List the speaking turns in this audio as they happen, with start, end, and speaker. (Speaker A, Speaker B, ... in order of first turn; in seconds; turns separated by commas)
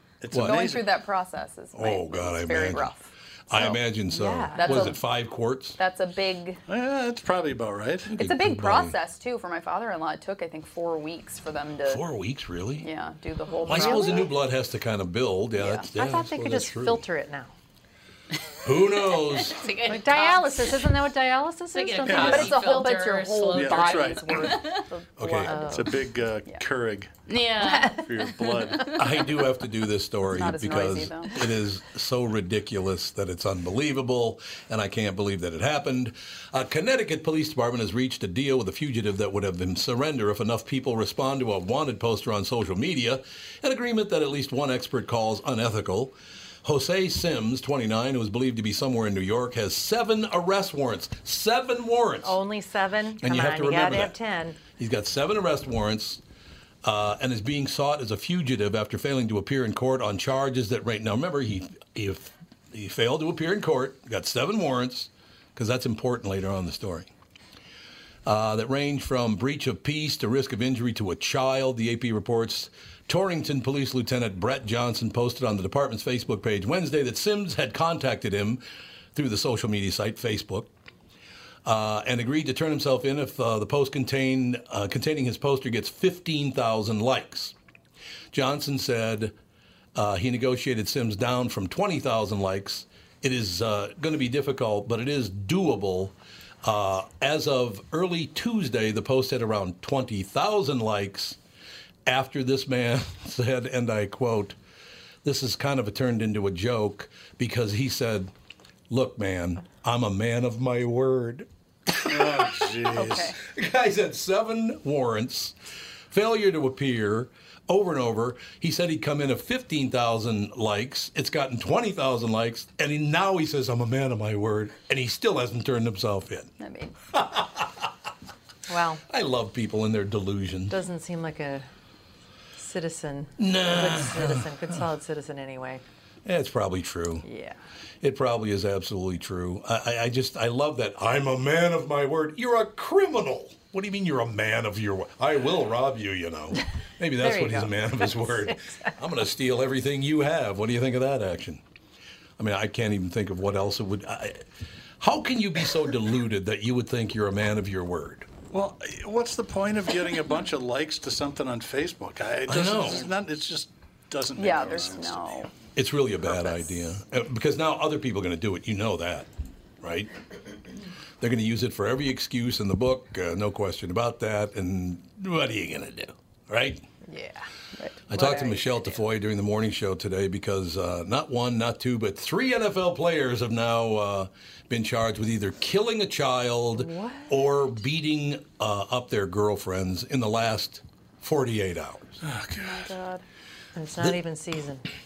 Speaker A: 0.2-0.8, Speaker B: 0.3-0.7, Speaker C: 0.3-3.8, Speaker B: 1.7-2.9, Speaker B: 3.5-5.8, Speaker D: 4.1-5.0, Speaker C: 4.5-5.0, Speaker C: 5.8-6.6, Speaker A: 6.7-8.2, Speaker C: 8.1-12.0, Speaker B: 8.2-8.9, Speaker B: 11.8-12.9, Speaker C: 12.8-14.3, Speaker D: 13.6-14.2, Speaker B: 13.7-17.0, Speaker C: 15.6-15.8, Speaker D: 15.9-17.5, Speaker B: 18.6-19.6, Speaker E: 18.7-20.9, Speaker D: 19.9-22.8, Speaker E: 21.7-24.8, Speaker A: 22.1-22.4, Speaker C: 22.2-25.9, Speaker A: 23.5-24.6, Speaker B: 25.2-25.6, Speaker D: 25.4-25.9, Speaker A: 25.6-27.1, Speaker E: 27.3-28.9, Speaker D: 27.6-28.0, Speaker A: 28.0-28.9, Speaker B: 28.9-52.4, Speaker C: 30.3-31.4, Speaker D: 52.2-54.6, Speaker B: 53.2-54.1, Speaker B: 54.7-56.2, Speaker B: 56.8-67.1, Speaker B: 68.2-78.6, Speaker B: 79.1-80.7, Speaker B: 81.6-87.5, Speaker B: 88.3-89.3, Speaker B: 89.9-101.4, Speaker B: 102.0-104.6, Speaker B: 105.2-108.3, Speaker B: 108.9-115.5, Speaker A: 112.0-113.3, Speaker C: 112.9-113.4, Speaker B: 116.1-126.5, Speaker C: 126.6-126.9, Speaker B: 127.1-127.9, Speaker D: 128.7-129.0, Speaker B: 129.1-130.8, Speaker D: 130.7-131.7, Speaker D: 132.6-135.8, Speaker B: 133.4-134.8, Speaker B: 136.2-137.2, Speaker D: 137.2-137.6, Speaker B: 138.0-151.6, Speaker D: 147.2-149.0, Speaker B: 152.4-154.4, Speaker B: 155.0-158.3, Speaker A: 158.5-165.4, Speaker B: 162.4-163.1, Speaker C: 164.4-165.5, Speaker B: 165.7-169.3, Speaker B: 169.8-170.1, Speaker B: 171.2-176.8, Speaker D: 177.1-177.5, Speaker B: 178.1-192.2, Speaker D: 178.1-179.0, Speaker D: 186.8-187.3, Speaker A: 192.2-192.9, Speaker C: 192.6-193.2, Speaker D: 193.7-194.8